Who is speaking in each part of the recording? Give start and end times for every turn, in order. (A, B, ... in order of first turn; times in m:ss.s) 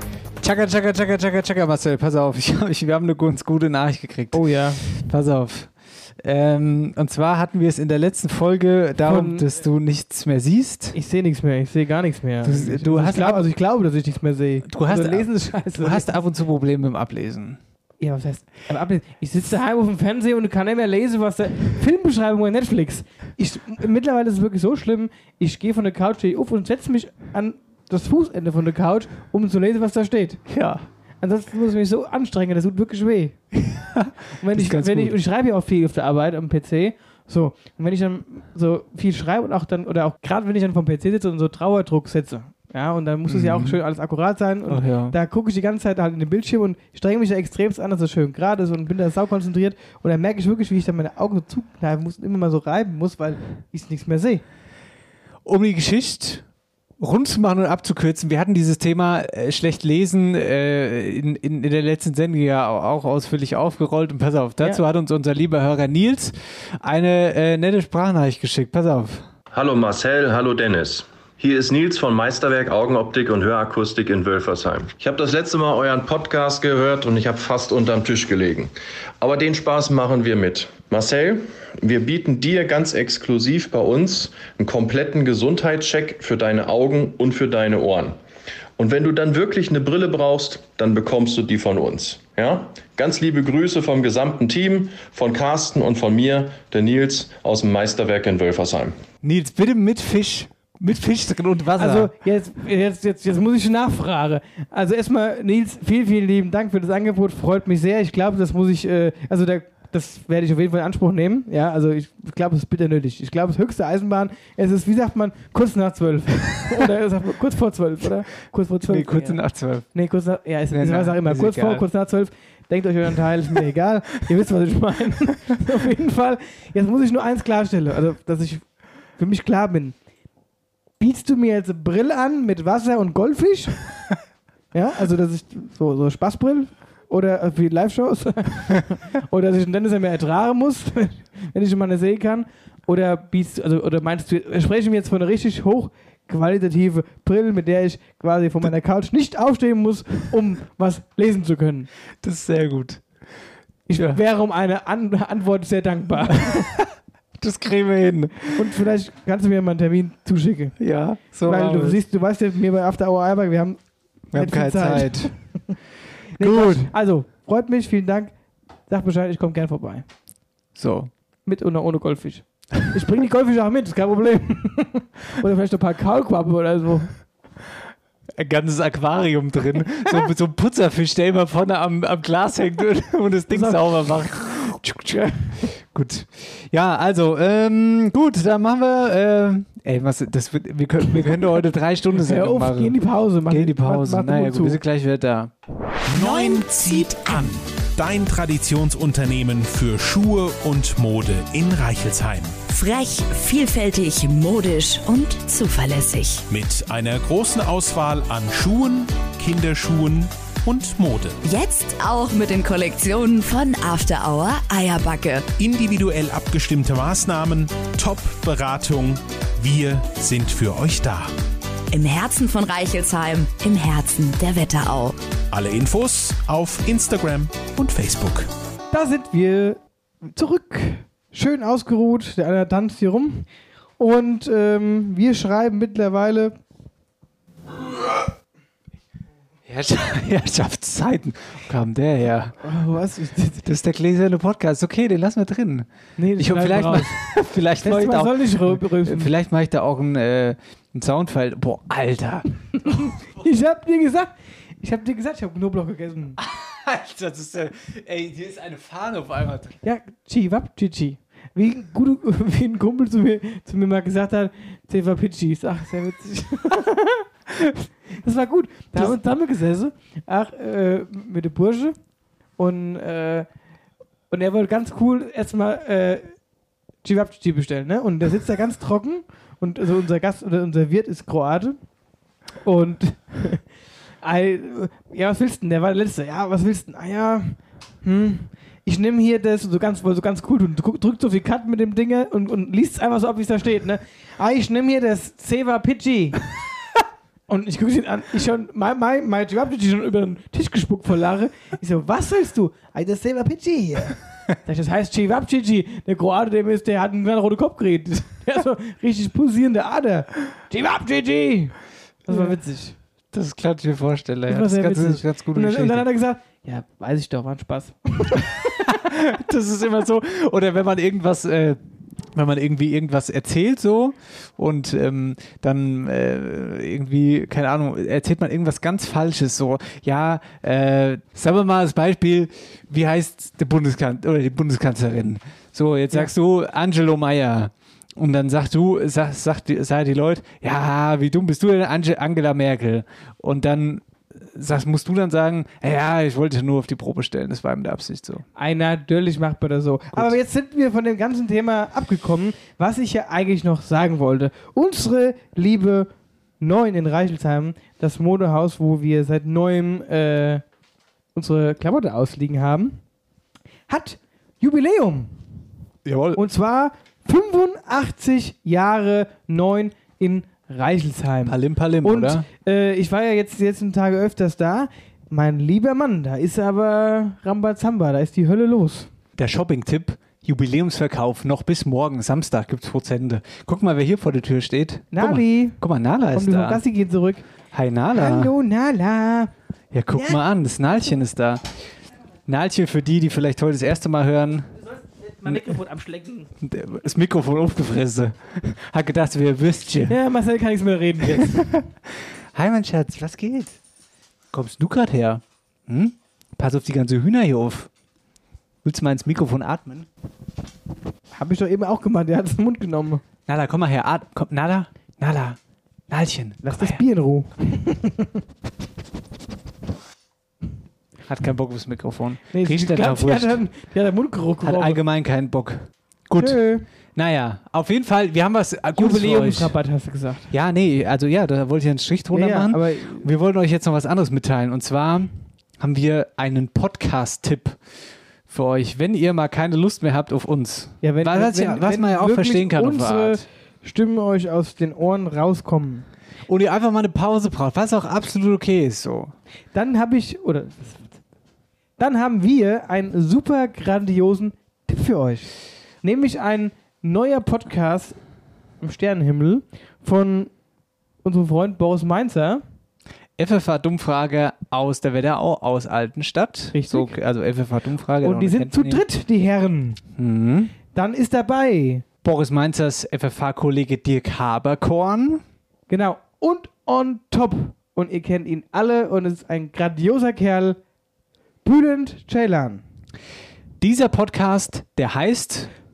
0:00.4-0:10.9 A
0:04.3-0:04.8 B
0:09.0-0:09.5 B
0:10.9-0:16.1 B
0:12.4-0:13.5 A
0:14.6-0:17.6 A
0:18.0-0:30.6 B
0:30.5-0:30.8 A
0:31.2-0:33.4 B
0:33.5-0:35.2 A
0:34.4-0:54.4 B
0:43.3-0:43.8 A
0:44.7-0:45.2 A
0:55.4-0:56.4 A
0:57.0-1:09.2 A
1:09.5-1:28.2 C
1:28.8-1:38.9 C
1:39.2-1:42.1 A
1:41.8-1:59.4 B
1:58.8-1:59.9 A
1:59.9-2:08.6 B
2:00.7-2:01.8 A
2:09.2-2:09.9 B
2:11.0-2:13.8 B
2:14.7-2:31.9 B
2:32.2-2:33.0 A
2:33.9-2:36.7 B
2:36.5-2:36.8 A
2:37.4-2:38.6 A
2:38.5-2:40.8 B
2:40.8-2:42.0 A
2:41.4-2:43.8 B
2:44.3-2:45.3 A
2:44.3-2:45.3 B
2:46.4-2:48.3 B
2:46.4-2:46.9 A
2:48.9-2:50.0 B
2:50.7-2:51.1 A
2:51.4-2:57.1 B
2:58.4-3:13.0 A
3:03.5-3:03.8 B
3:12.2-3:14.8 B
3:13.5-3:15.5 A
3:16.1-3:22.5 D
3:16.1-3:17.4 E
3:22.7-3:26.4 E
3:26.5-3:31.4 D
3:31.4-3:35.5 E
3:35.6-3:41.3 D
3:41.9-3:45.2 E
3:45.5-3:48.5 D
3:48.9-3:53.5 B
3:54.0-3:56.5 B
3:59.6-4:02.5 A
4:02.6-4:03.6 B
4:03.6-4:13.0 A
4:06.2-4:07.2 B
4:07.8-4:09.3 B
4:13.4-4:16.4 B
4:16.4-4:19.8 A
4:19.8-4:32.0 B
4:32.6-4:33.5 B
4:34.3-4:36.2 B
4:37.0-4:41.8 B
4:42.6-4:43.6 B
4:44.2-4:56.4 B
4:57.5-5:11.7 B
5:12.3-5:12.9 B
5:12.3-5:12.5 A
5:13.3-5:16.1 A
5:14.5-5:18.5 B
5:18.8-5:21.8 A
5:22.3-5:48.4 A
5:48.6-5:56.1 B
5:56.6-6:00.6 B
6:01.3-6:03.0 B
6:03.9-6:05.3 B
6:06.0-6:06.4 A
6:06.3-6:19.1 B
6:11.4-6:12.4 A
6:19.4-6:26.8 A
6:25.1-6:25.8 B
6:26.3-6:27.4 B
6:27.7-6:28.5 A
6:28.1-6:29.5 B
6:29.9-6:31.6 A
6:30.1-6:30.4 B
6:32.4-6:34.7 A
6:35.4-6:36.5 B
6:35.4-6:35.7 A
6:36.6-6:40.2 A
6:40.1-6:41.7 B
6:41.2-6:43.8 A
6:44.5-6:47.9 A
6:48.8-6:50.1 A
6:51.3-6:53.2 B
6:53.5-6:55.6 A
6:56.1-6:57.0 A
6:56.6-6:58.3 B
7:01.3-7:03.6 A
7:02.5-7:05.0 B
7:04.6-7:06.6 A
7:06.4-7:06.8 B
7:07.1-7:09.7 A
7:09.0-7:10.5 B
7:10.5-7:17.8 A
7:12.3-7:13.2 B
7:18.5-7:23.4 A
7:21.0-7:26.0 B
7:26.5-7:29.3 A
7:29.7-7:31.1 B
7:32.0-7:38.2 B
7:38.8-7:40.5 B
7:41.2-7:42.6 B
7:43.4-7:49.0 A
7:46.7-7:47.2 B
7:48.2-7:50.0 B
7:50.2-7:50.7 A
7:50.9-7:52.0 B
7:52.2-7:55.4 A
7:55.9-8:00.8 B
8:01.6-8:02.8 B
8:03.8-8:05.7 A